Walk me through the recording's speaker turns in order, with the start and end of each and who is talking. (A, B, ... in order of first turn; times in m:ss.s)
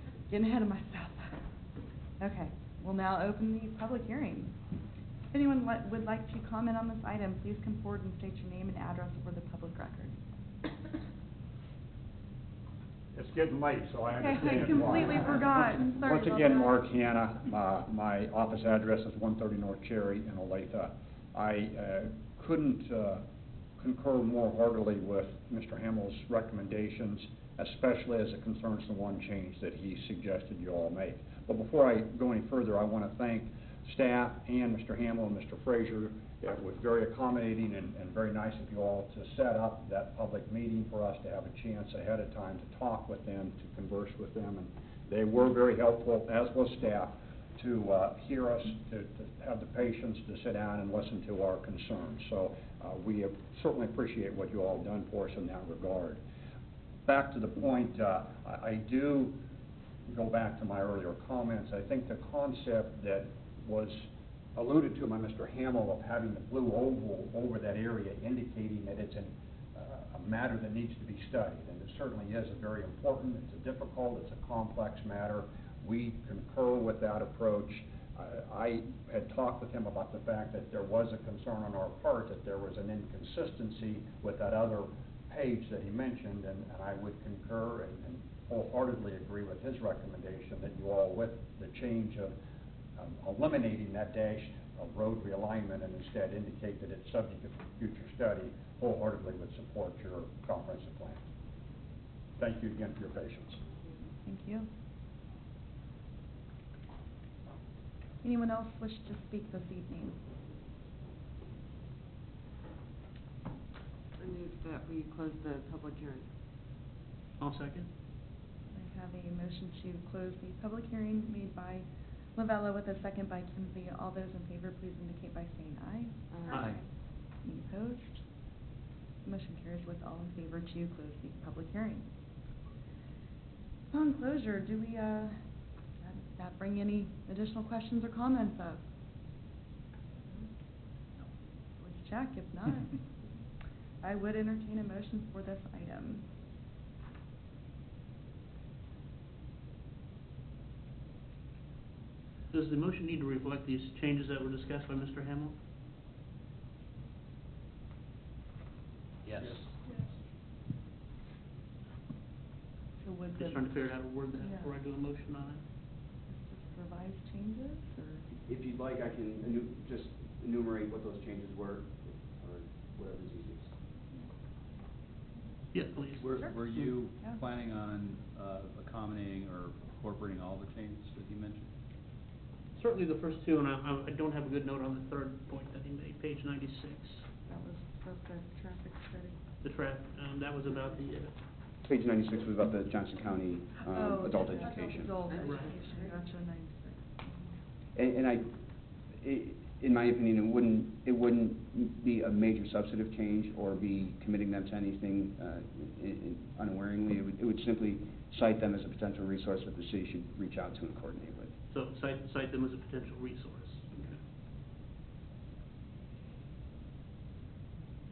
0:00.3-0:01.4 A
0:02.2-0:04.5 A
0:05.3-0:10.2 A
0:13.1-0:23.2 B
0:14.2-0:16.8 A
0:23.8-0:56.2 B
0:57.0-0:59.4 B
1:00.1-1:32.3 B
1:33.0-1:41.2 B
1:42.4-1:43.6 B
1:44.2-1:44.7 A
1:48.2-1:50.2 A
1:54.2-1:56.3 C
1:57.4-1:57.9 D
1:58.7-2:06.8 A
2:06.3-2:06.7 C
2:06.5-2:06.8 D
2:07.4-2:08.2 A
2:09.2-2:12.1 A
2:13.9-2:15.4 A
2:16.0-2:18.8 A
2:21.8-2:23.1 A
2:24.0-2:26.2 A
2:32.5-2:35.6 D
2:39.4-2:39.8 D
2:43.0-2:44.7 A
2:43.4-2:45.6 D
2:46.3-2:48.3 A
2:48.5-2:53.7 E
2:55.7-2:56.3 D
2:56.2-3:01.7 F
3:02.8-3:07.3 D
3:07.5-3:09.4 A
3:09.6-3:11.3 D
3:11.8-3:15.3 E
3:13.9-3:17.6 A
3:15.2-3:16.2 C
3:15.4-3:15.7 D
3:17.9-3:18.5 E
3:19.1-3:31.5 E
3:31.7-3:34.2 D